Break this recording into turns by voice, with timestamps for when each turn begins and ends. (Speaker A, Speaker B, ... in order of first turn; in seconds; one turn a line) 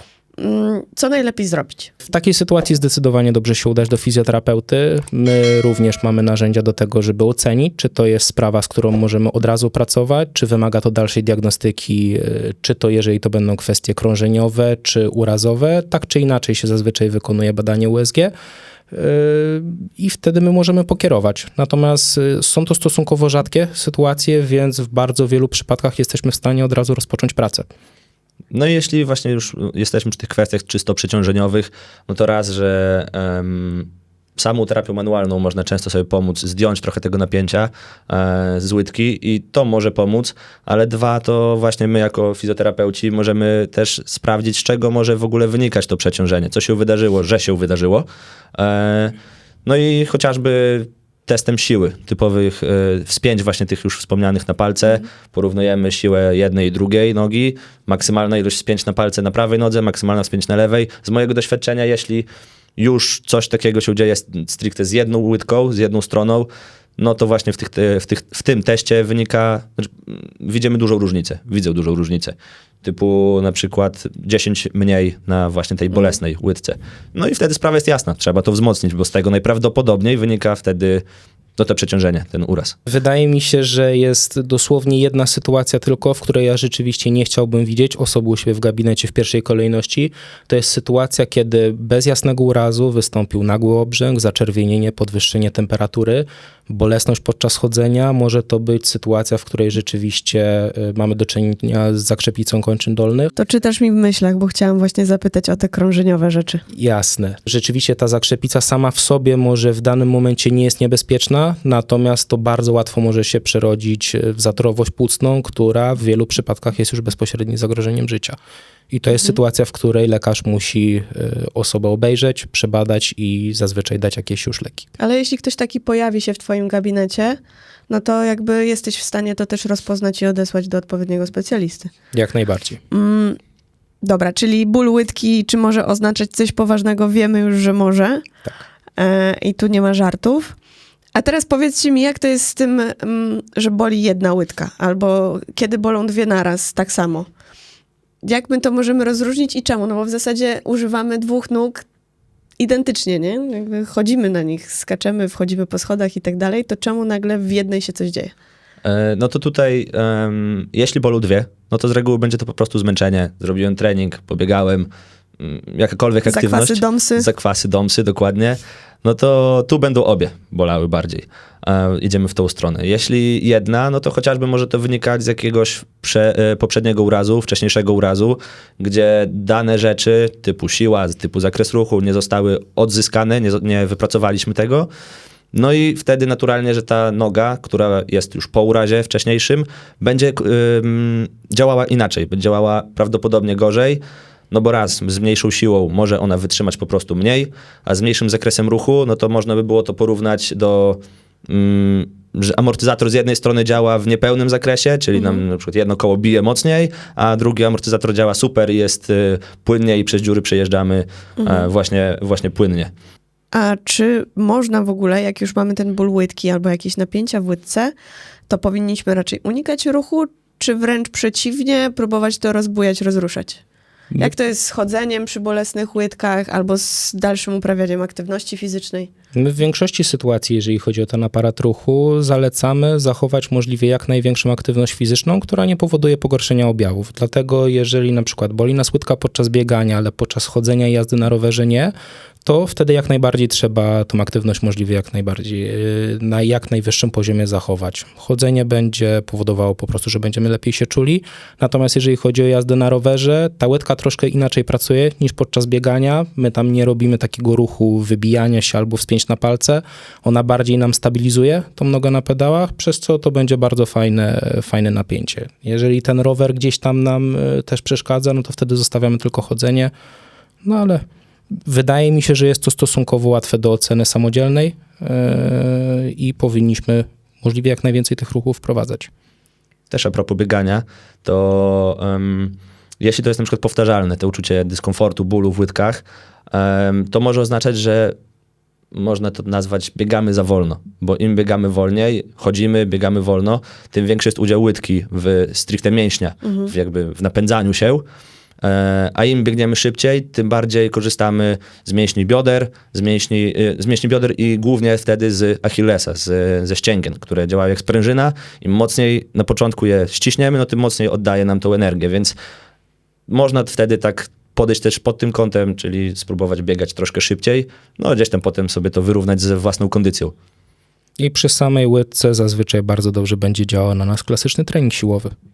Speaker A: 0.4-1.9
Speaker B: 2.0-18.3
Speaker B: 18.9-27.7
Speaker C: 28.5-81.0
Speaker C: 81.6-82.8
Speaker B: 82.9-103.3
Speaker A: 103.4-106.6
Speaker B: 106.7-118.4
Speaker B: 118.9-124.9
Speaker A: 125.0-127.4
Speaker A: 127.9-131.9
Speaker B: 132.1-132.8
Speaker A: 132.9-133.4
Speaker A: 134.0-138.2
Speaker A: 139.0-140.6
Speaker A: 141.2-147.3
Speaker A: 148.2-151.8
Speaker A: 152.6-158.3
Speaker C: 158.8-184.9
Speaker A: 166.2-167.3
Speaker C: 185.5-212.9
Speaker A: 205.2-205.4
Speaker A: 211.4-211.7
Speaker A: 213.5-217.9
Speaker A: 218.5-223.6
Speaker A: 224.2-229.1
Speaker B: 229.3-241.9
Speaker B: 242.4-269.9
Speaker B: 270.6-271.0
Speaker B: 271.6-279.1
Speaker C: 279.9-288.2
Speaker C: 288.9-298.1
Speaker A: 296.4-296.7
Speaker C: 298.6-312.4
Speaker C: 313.3-320.3
Speaker B: 321.2-325.3